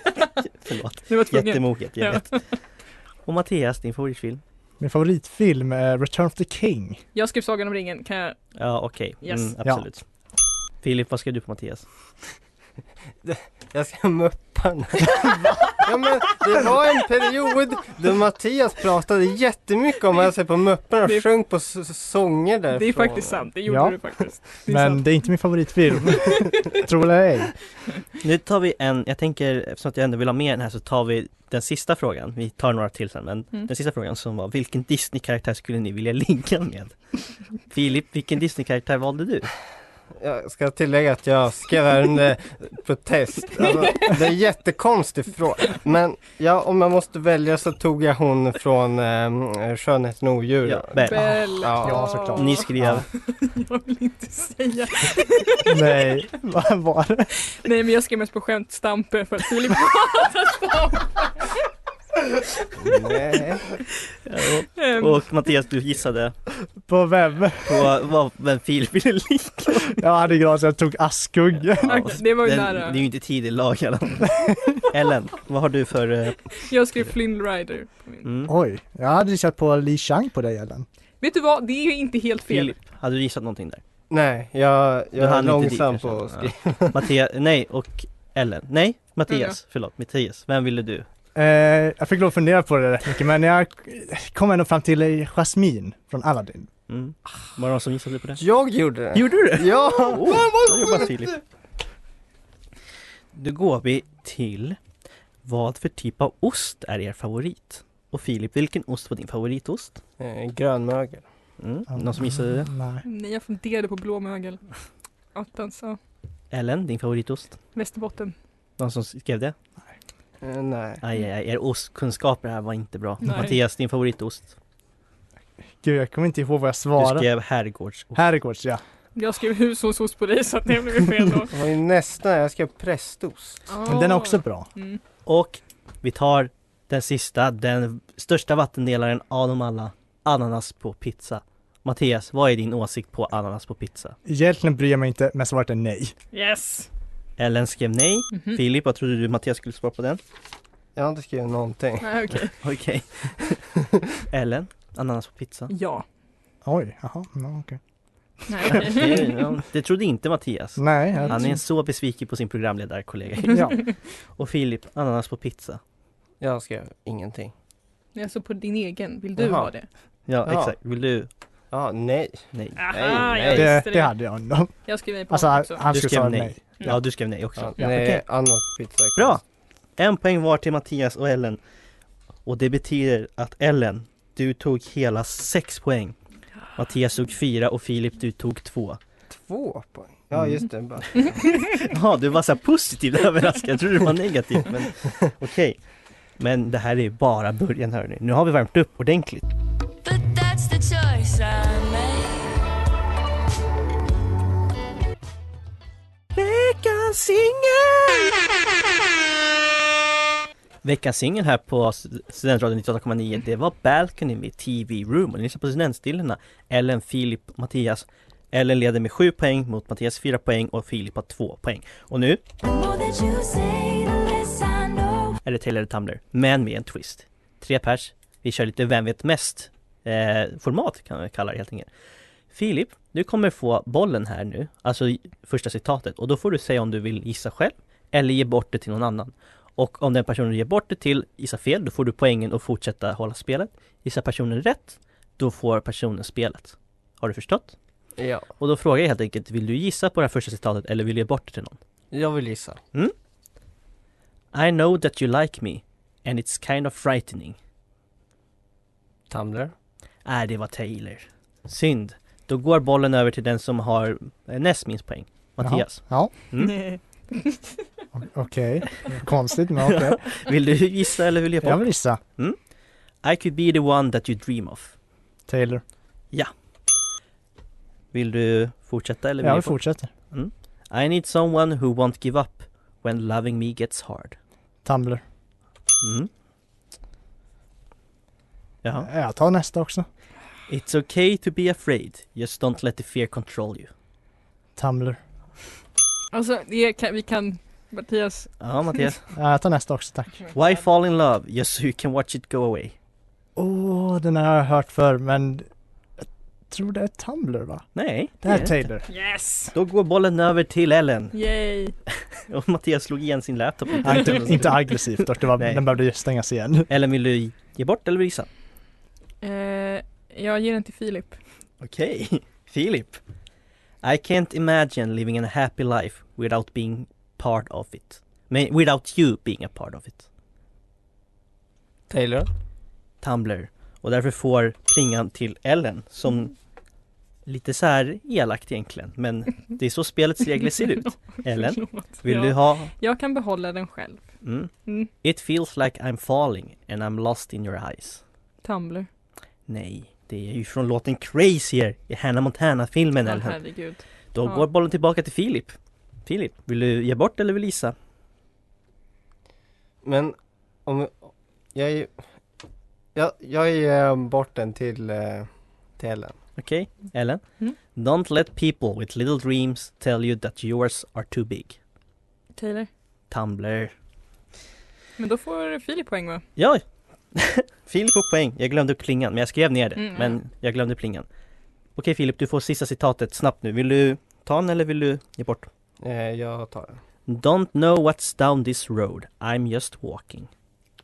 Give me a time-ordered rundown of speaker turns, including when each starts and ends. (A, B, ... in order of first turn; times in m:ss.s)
0:00.6-0:02.3 A
0:01.1-0:02.6 B
0:03.2-0:04.4 A
0:04.8-0:07.0 C
0:07.1-0:08.5 B
0:08.5-0:10.0 A
0:09.2-0:09.5 B
0:10.8-0:11.8 A
0:13.2-0:23.5 D
0:22.7-0:25.2 B
0:23.6-0:27.6 C
0:26.1-0:26.8 B
0:28.2-0:37.0 A
0:37.6-0:39.5 A
0:40.2-0:51.0 D
0:50.6-0:51.5 A
0:51.0-0:56.0 B
0:51.1-0:53.0 C
0:51.6-0:52.0 D
0:52.4-0:53.1 A
0:55.6-0:57.3 C
0:57.5-1:01.5 B
1:02.8-1:03.8 D
1:04.2-1:06.3 A
1:04.8-1:05.2 B
1:06.8-1:07.9 C
1:07.6-1:10.0 A
1:10.0-1:12.1 C
1:11.8-1:16.5 A
1:11.8-1:13.0 B
1:16.6-1:18.2 B
1:18.2-1:18.5 A
1:18.5-1:20.8 C
1:21.2-1:22.8 B
1:22.5-1:23.8 A
1:24.1-1:26.9 D
1:25.2-1:31.1 A
1:29.3-1:29.5 B
1:31.3-1:36.7 C
1:36.9-1:38.4 A
1:38.4-1:41.1 D
1:39.1-1:41.4 A
1:43.3-1:44.8 A
1:45.4-1:50.0 A
1:50.2-1:51.2 D
1:51.6-1:52.7 A
1:51.9-1:53.0 C
1:53.0-1:54.8 B
1:55.3-1:56.0 B
1:56.5-1:57.6 A
1:57.7-1:58.3 B
1:58.8-1:59.5 A
2:00.4-2:01.0 D
2:01.0-2:04.5 A
2:03.2-2:03.6 B
2:05.8-2:07.3 C
2:07.0-2:08.2 A
2:08.1-2:08.8 C
2:09.2-2:11.5 B
2:11.5-2:13.6 D
2:13.7-2:15.0 B
2:13.8-2:14.7 C
2:15.2-2:24.2 A
2:24.2-2:26.1 C
2:26.3-2:26.9 B
2:27.4-2:30.2 A
2:28.3-2:28.6 B
2:31.0-2:32.3 D
2:32.0-2:32.5 B
2:32.6-2:33.6 A
2:34.3-2:35.7 A
2:35.7-2:36.0 B
2:36.6-2:37.8 C
2:38.5-2:39.4 B
2:38.7-2:45.8 A
2:40.8-2:41.6 C
2:41.2-2:41.5 B
2:43.5-2:43.8 C
2:46.4-2:47.5 D
2:48.1-2:49.9 B
2:49.4-2:49.7 D
2:50.3-2:51.3 A
2:50.4-2:50.7 D
2:51.7-2:53.7 D
2:52.5-2:52.8 A
2:52.8-2:54.1 B
2:53.5-2:56.6 C
2:54.8-2:55.9 B
2:55.9-2:58.2 A
2:57.6-2:59.4 D
2:59.2-2:59.4 A
3:00.0-3:01.6 A
3:02.4-3:06.1 A
3:06.8-3:09.0 A
3:09.3-3:11.9 D
3:10.3-3:10.6 A
3:11.7-3:15.8 A
3:16.4-3:19.4 A
3:20.0-3:22.6 E
3:26.4-3:28.3 A
3:30.8-3:42.4 A
3:42.6-3:45.4 E
3:45.4-3:51.9 A
3:52.5-4:07.7 A
4:08.2-4:08.4 D
4:08.6-4:11.8 A
4:12.1-4:12.8 D
4:14.5-4:17.6 A
4:19.3-4:19.7 D
4:20.2-4:26.8 A
4:25.6-4:26.3 C
4:26.6-4:27.6 B
4:28.1-4:30.2 C
4:29.8-4:32.6 A
4:31.6-4:32.2 C
4:33.2-4:34.9 A
4:35.5-4:35.8 C
4:38.1-4:44.4 A
4:39.4-4:40.1 C
4:44.8-4:45.2 C
4:46.0-4:46.3 A
4:48.8-4:49.1 A
4:49.0-4:50.0 C
4:50.7-4:53.9 A
4:54.8-4:55.2 C
4:56.3-4:58.6 B
4:58.6-4:59.2 A
4:59.3-5:00.4 C
5:00.5-5:02.9 A
5:03.6-5:05.7 C
5:06.2-5:09.0 C
5:07.9-5:09.1 A
5:09.1-5:09.7 B
5:09.7-5:11.3 A
5:11.3-5:12.0 B
5:12.5-5:15.0 A
5:14.0-5:16.9 C
5:15.5-5:15.9 A
5:16.9-5:18.5 A
5:19.4-5:21.4 B
5:21.8-5:23.2 A
5:24.0-5:30.3 A
5:32.1-5:32.5 D
5:33.2-5:36.5 A
5:37.4-5:42.9 A
5:41.0-5:44.3 B
5:44.4-5:44.7 A
5:45.2-5:48.2 A
5:48.6-5:49.1 B
5:49.7-5:53.6 A
5:53.2-5:54.6 B
5:54.3-5:57.9 A
6:00.0-6:02.1 D
6:03.1-6:06.4 D
6:06.6-6:07.4 A
6:07.9-6:11.8 A
6:12.6-6:12.9 B
6:13.3-6:13.9 A
6:15.2-6:16.4 B
6:16.6-6:16.8 A
6:17.3-6:21.2 A
6:20.0-6:20.3 B
6:22.0-6:25.7 A
6:26.0-6:27.0 D
6:27.3-6:30.5 A